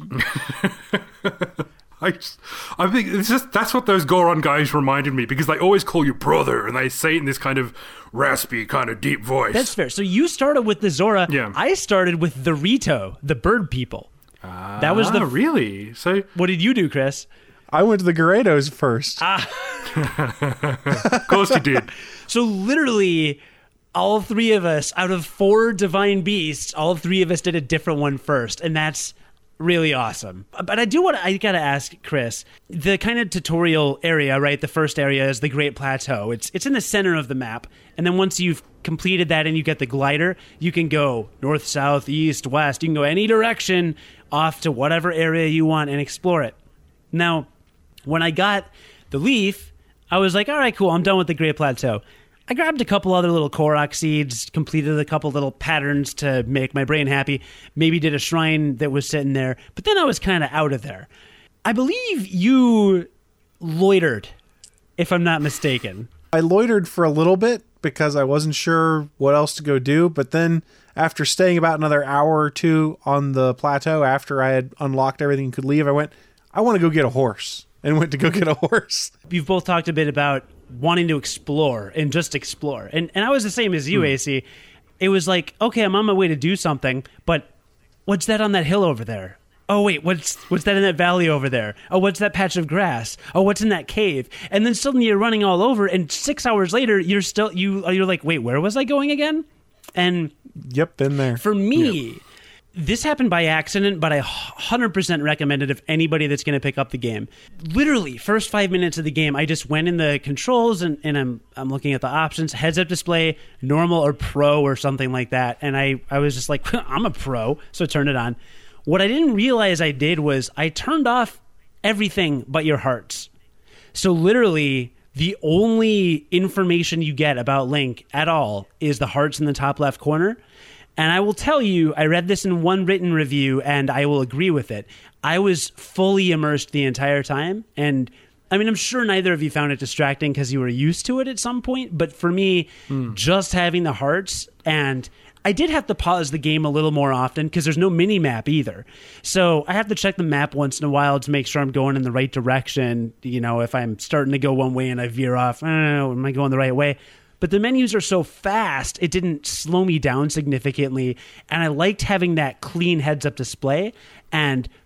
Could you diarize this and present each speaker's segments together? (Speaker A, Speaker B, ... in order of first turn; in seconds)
Speaker A: 0.1-9.7, 11.3-11.6, 14.4-16.3, 19.9-21.9
Speaker B: 9.5-14.1, 14.8-15.3, 16.3-17.3, 19.2-20.1, 22.3-23.4, 23.9-46.6, 47.1-47.5, 48.0-61.1, 61.6-63.1, 63.6-64.3, 65.0-66.1, 79.3-84.4, 85.0-87.5, 88.0-100.3, 101.4-102.2, 102.7-123.3, 123.9-130.4, 131.0-164.7
Speaker C: 17.7-19.2, 21.0-21.4, 66.3-79.1, 100.6-101.4